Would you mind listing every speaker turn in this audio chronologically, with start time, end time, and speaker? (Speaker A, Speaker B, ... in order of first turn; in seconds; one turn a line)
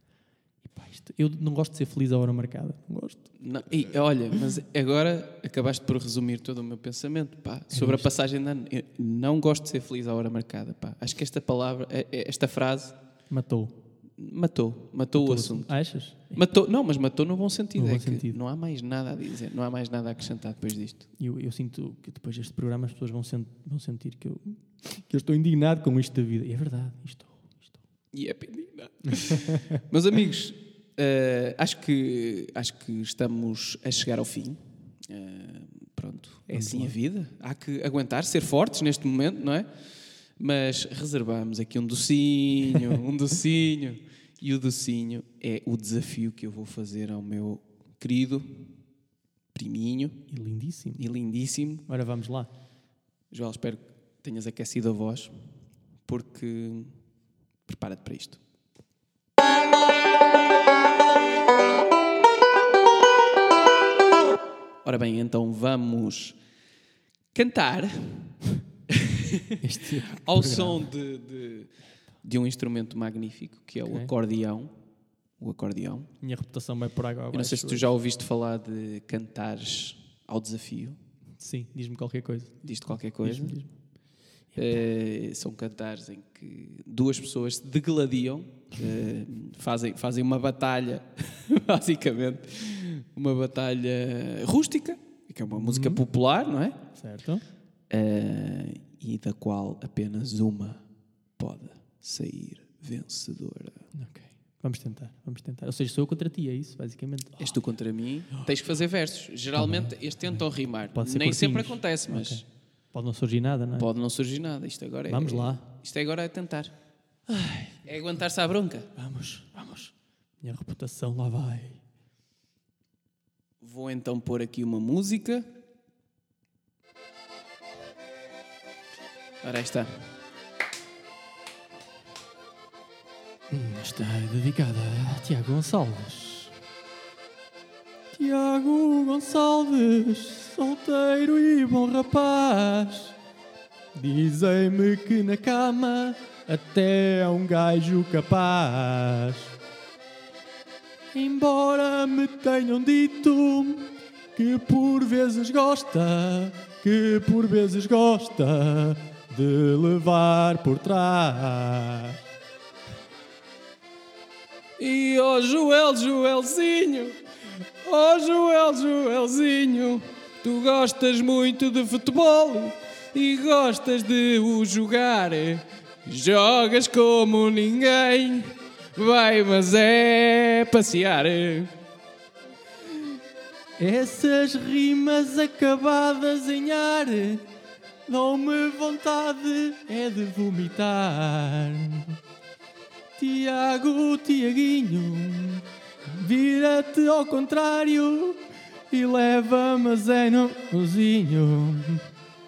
Speaker A: 0.6-3.3
Speaker B: 3.4-12.9
Speaker A: 7.7-8.1
Speaker A: 13.3-13.7
Speaker B: 14.2-15.8
Speaker A: 15.1-16.4
Speaker B: 16.3-21.0
Speaker A: 17.8-18.4
Speaker A: 21.2-27.8
Speaker B: 28.1-39.7
Speaker A: 29.1-29.8
Speaker A: 36.5-37.0
Speaker B: 40.4-48.7
Speaker B: 49.5-50.2
Speaker A: 50.3-51.1
Speaker B: 51.0-51.8
Speaker A: 51.9-52.5
Speaker B: 53.3-55.3
Speaker B: 56.0-56.9
Speaker B: 57.6-58.4
Speaker B: 64.8-66.4
Speaker B: 67.3-69.6
Speaker A: 69.6-70.8
Speaker B: 70.2-71.7
Speaker B: 72.2-74.7
Speaker A: 73.8-74.1
Speaker B: 75.4-76.1
Speaker A: 76.2-77.9
Speaker B: 77.3-81.0
Speaker A: 81.4-83.7
Speaker B: 82.6-83.5
Speaker B: 84.5-96.8
Speaker A: 95.5-96.0
Speaker A: 96.9-97.4
Speaker B: 97.9-100.8
Speaker B: 101.4-103.8
Speaker A: 103.9-107.6
Speaker B: 107.4-112.4
Speaker A: 109.5-109.9
Speaker A: 110.8-113.9
Speaker B: 113.8-116.7
Speaker A: 115.1-115.6
Speaker A: 117.3-117.9
Speaker B: 117.8-118.9
Speaker A: 119.0-121.8
Speaker B: 123.6-125.5
Speaker B: 129.4-129.9
Speaker A: 133.5-136.5
Speaker A: 138.1-143.1
Speaker A: 143.9-149.5
Speaker A: 151.1-162.2
Speaker B: 164.8-167.2
Speaker B: 167.8-181.7
Speaker A: 183.8-187.4
Speaker A: 188.1-192.2
Speaker A: 193.2-202.0